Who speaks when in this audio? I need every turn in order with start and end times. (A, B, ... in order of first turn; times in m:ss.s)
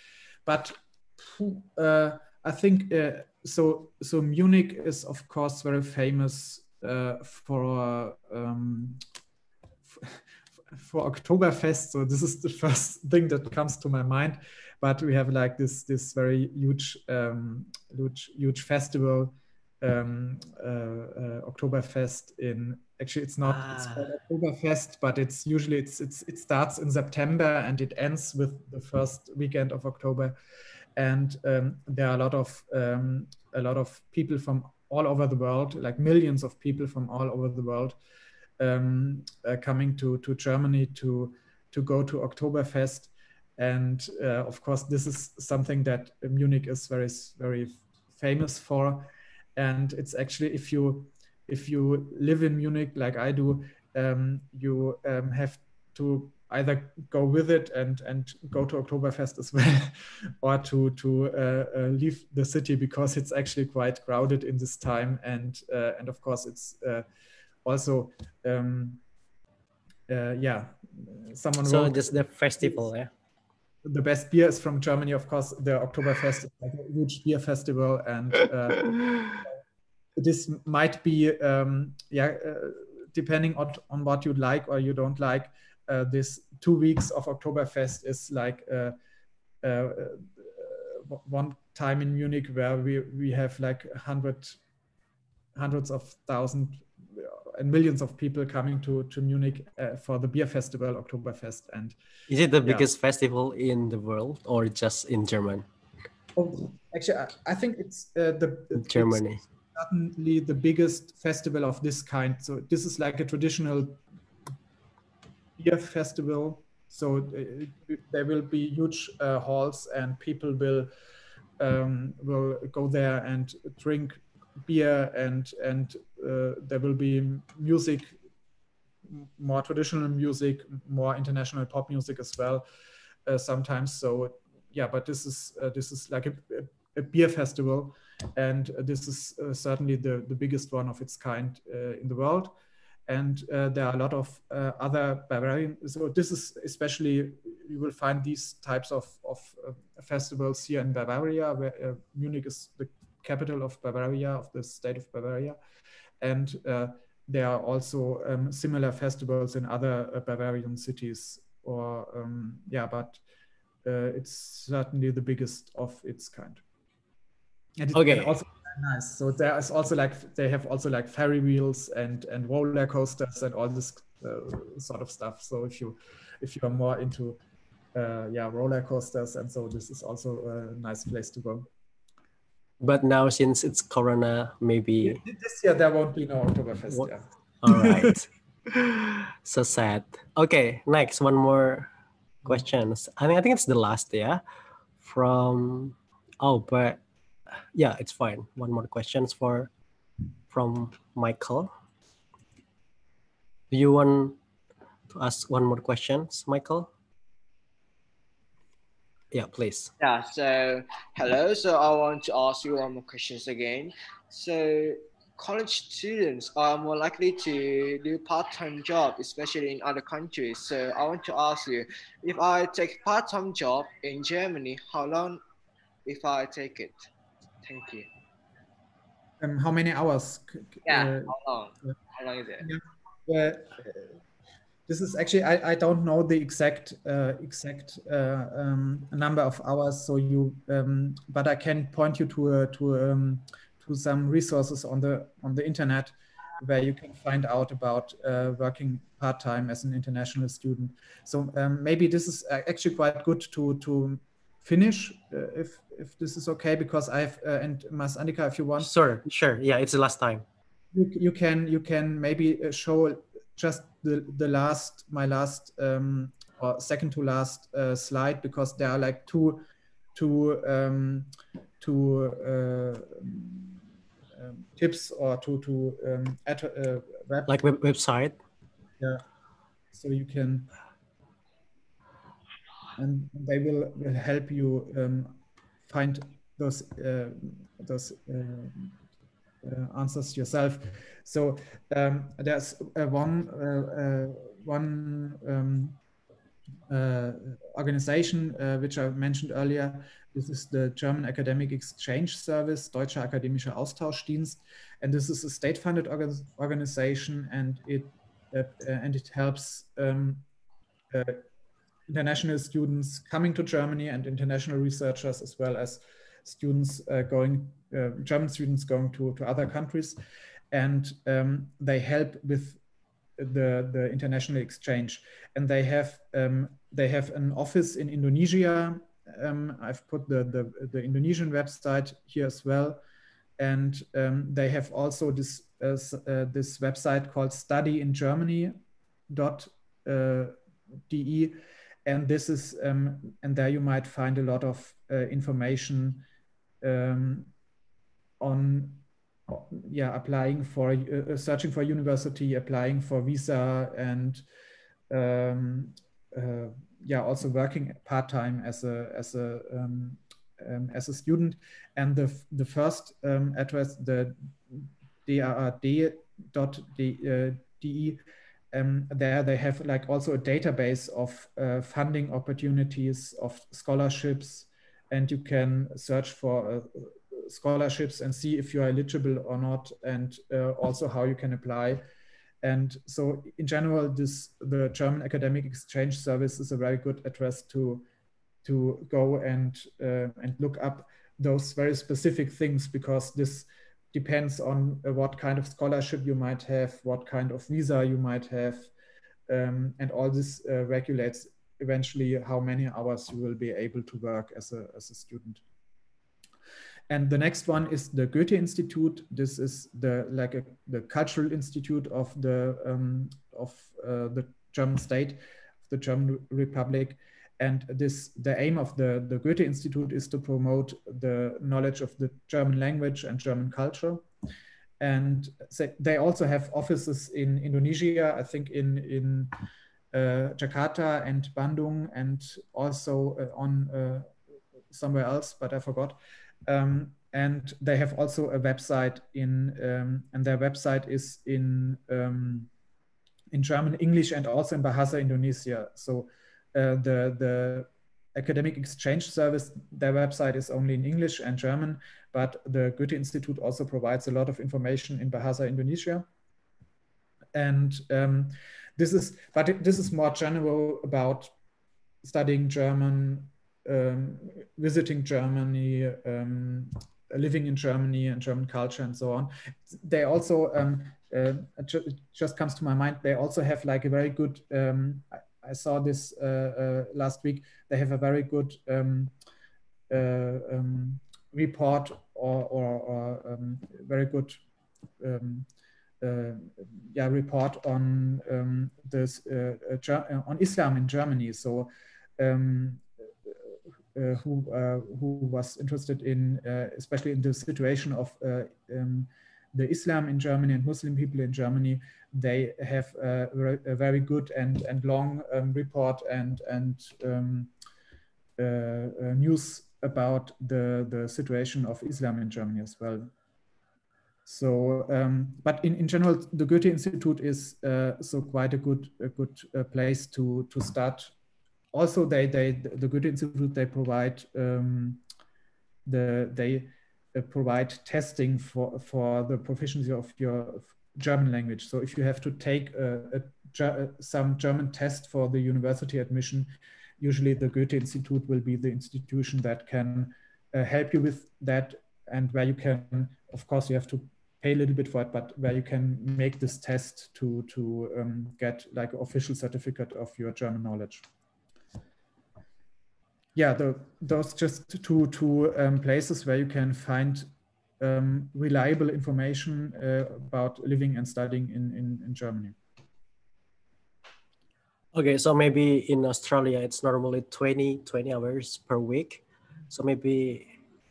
0:00.4-0:09.0 A
0:09.9-0:10.2 A
0:10.7-0:30.3 A
0:23.4-0:24.1 B
0:31.0-0:38.0 A
0:38.6-1:07.0 A
1:07.6-1:09.0 A
1:10.1-1:12.9 A
1:11.6-1:13.1 B
1:13.8-1:18.9 A
1:20.2-1:29.0 A
1:29.6-1:34.6 A
1:35.5-1:42.0 A
1:42.3-1:45.6 B
1:46.3-1:54.0 A
1:48.7-1:49.4 B
1:55.6-2:00.9 A
2:01.6-2:08.2 A
2:09.1-2:12.6 A
2:13.2-2:22.6 A
2:23.1-2:35.6 A
2:36.2-2:43.2 A
2:43.8-2:46.6 A
2:47.8-2:57.4 A
2:47.9-2:48.4 B
2:57.9-3:01.7 A
3:02.8-3:05.2 B
3:05.0-3:08.1 A
3:07.6-3:11.9 B
3:12.4-3:14.4 B
3:15.0-3:17.0 B
3:17.7-3:19.7 B
3:20.5-3:21.7 B
3:23.7-3:24.4 B
3:25.1-3:26.9 B
3:29.3-3:29.9 B
3:30.0-3:45.4 C
3:46.0-3:47.1 C
3:47.6-3:48.1 C
3:49.4-3:51.3 A
3:50.8-3:52.6 C
3:52.6-3:54.1 A
3:54.9-4:18.9 A
4:18.8-4:20.4 B
4:20.9-4:29.6 A
4:30.1-4:31.3 A
4:31.8-4:33.8 A
4:34.4-4:37.5 A
4:37.4-4:38.4 B
4:39.9-4:40.7 A
4:43.0-4:49.0 A
4:49.6-4:56.0 A
4:56.9-5:10.4 A
5:11.1-5:11.4 A
5:12.1-5:20.2 A
5:20.7-5:22.8 A
5:23.4-5:33.0 A
5:33.6-5:38.8 A
5:39.3-5:40.6 A
5:41.1-5:46.2 A
5:46.8-5:47.5 A
5:48.4-5:54.4 A
5:55.1-6:22.0 A
6:22.6-6:28.0 A
6:28.6-6:38.9 A
6:39.5-6:45.6 A
6:47.1-7:04.2 A
7:05.0-7:09.5 A
7:10.1-7:14.3 A
7:14.9-7:22.7 A
7:23.5-7:36.3 A
7:37.5-7:41.5 A
7:42.2-7:59.3 A
8:00.1-8:04.6 A
8:05.2-8:05.7 A
8:06.2-8:13.5 A
8:14.1-8:27.7 A
8:28.6-8:33.3 A
8:34.4-8:41.3 A
8:41.9-8:45.2 A
8:46.0-9:11.2 A
9:13.5-9:17.5 A
9:18.0-9:22.7 A
9:25.1-9:30.7 B